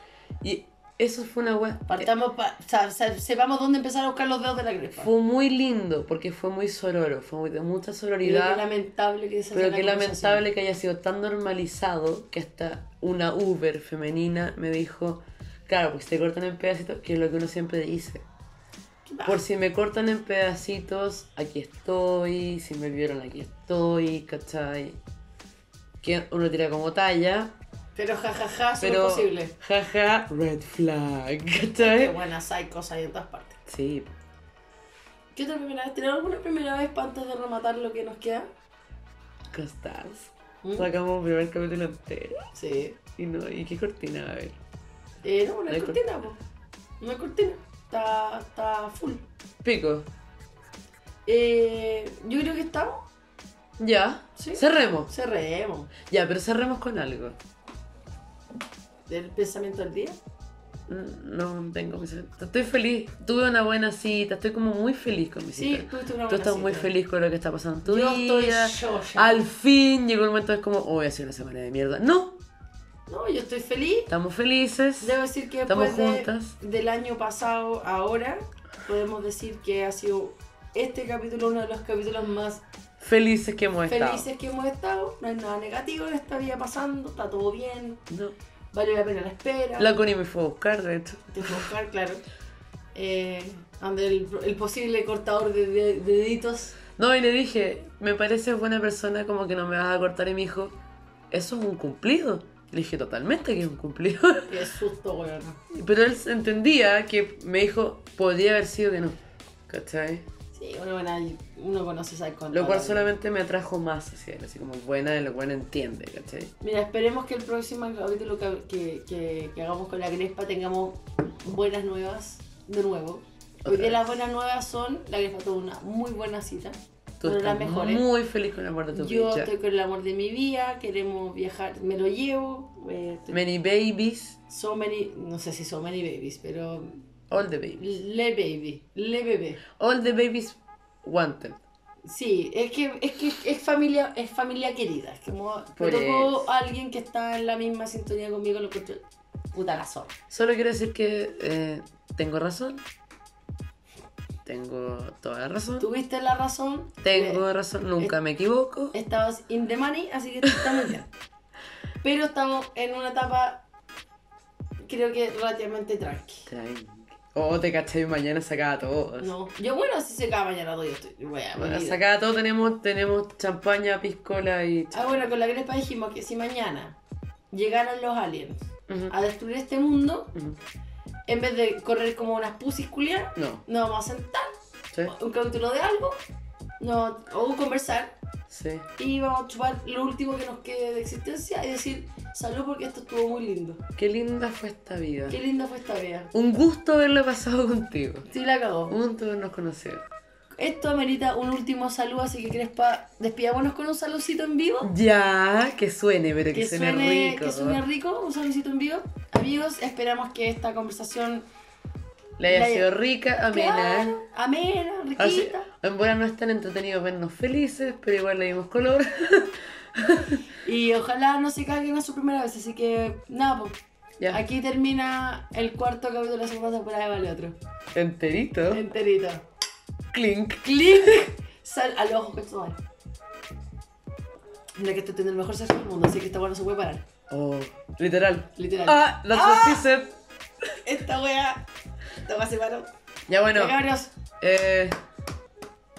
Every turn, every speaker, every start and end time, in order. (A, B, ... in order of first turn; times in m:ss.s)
0:00.4-0:02.1 A
0:01.9-0:05.1 B
0:05.0-0:08.6 A
0:08.2-0:10.4 B
0:09.5-0:18.3 A
0:19.1-0:19.4 B
0:19.2-0:25.0 A
0:26.0-0:27.6 A
0:28.0-0:29.6 B
0:28.8-0:32.2 A
0:31.8-0:33.6 B
0:33.7-0:34.2 A
0:35.3-0:38.5 B
0:39.5-0:42.5 A
0:40.6-0:40.9 B
0:42.6-0:43.0 B
0:43.2-0:44.6 A
0:45.2-0:46.4 B
0:45.7-0:46.0 A
0:47.0-0:49.2 B
0:49.6-0:50.1 A
0:51.3-0:53.0 B
0:53.8-0:55.1 A
0:54.4-0:55.9 B
0:56.0-0:57.4 A
0:59.1-1:00.2 B
1:00.9-1:12.4 A
1:05.5-1:06.9 B
1:07.8-1:09.4 B
1:13.1-1:14.1 B
1:14.1-1:16.6 A
1:15.0-1:22.6 B
1:23.0-1:24.3 A
1:23.9-1:28.1 B
1:28.7-1:29.9 B
1:29.8-1:31.7 A
1:31.3-1:32.2 B
1:32.9-1:36.8 B
1:37.0-1:40.8 A
1:41.3-1:44.6 A
1:44.5-1:45.6 B
1:45.7-1:50.3 A
1:50.5-1:53.1 B
1:52.5-1:56.5 A
1:56.6-2:08.0 B
2:03.6-2:04.2 A
2:07.2-2:09.5 A
2:08.9-2:13.4 B
2:13.3-2:14.4 A
2:14.5-2:17.1 B
2:17.3-2:18.0 A
2:17.8-2:19.6 B
2:19.8-2:21.6 A
2:22.0-2:30.1 B
2:25.8-2:26.5 A
2:30.3-2:32.8 A
2:34.4-2:35.9 A
2:35.8-2:37.4 B
2:37.0-2:39.0 A
2:38.9-2:41.1 B
2:42.0-2:43.6 B
2:44.8-2:46.5 B
2:46.5-2:49.3 A
2:49.2-2:52.0 B
2:51.6-2:55.3 A
2:54.9-2:57.0 B
2:57.5-3:00.3 B
2:58.9-2:59.1 A
3:00.3-3:00.6 A
3:01.3-3:04.5 B
3:03.4-3:03.6 A
3:05.1-3:06.2 B
3:06.8-3:08.2 B
3:08.5-3:08.9 A
3:09.0-3:13.8 B
3:14.0-3:15.4 A
3:15.3-3:16.3 B
3:16.3-3:18.3 A
3:18.3-3:19.0 B
3:18.9-3:20.0 A
3:20.6-3:24.9 B
3:24.8-3:27.8 A
3:26.5-3:31.5 B
3:32.4-3:34.2 A
3:32.5-3:32.9 B
3:33.5-3:35.7 B
3:35.2-3:40.4 A
3:40.5-3:47.6 B
3:47.9-3:48.8 A
3:48.7-3:49.5 B
3:50.1-3:51.2 A
3:50.6-3:52.8 B
3:54.8-3:57.0 B
3:57.3-4:00.2 A
3:58.6-3:59.9 B
4:00.8-4:01.7 B
4:02.2-4:02.9 B
4:03.3-4:03.8 A
4:03.5-4:04.1 B
4:04.4-4:05.0 A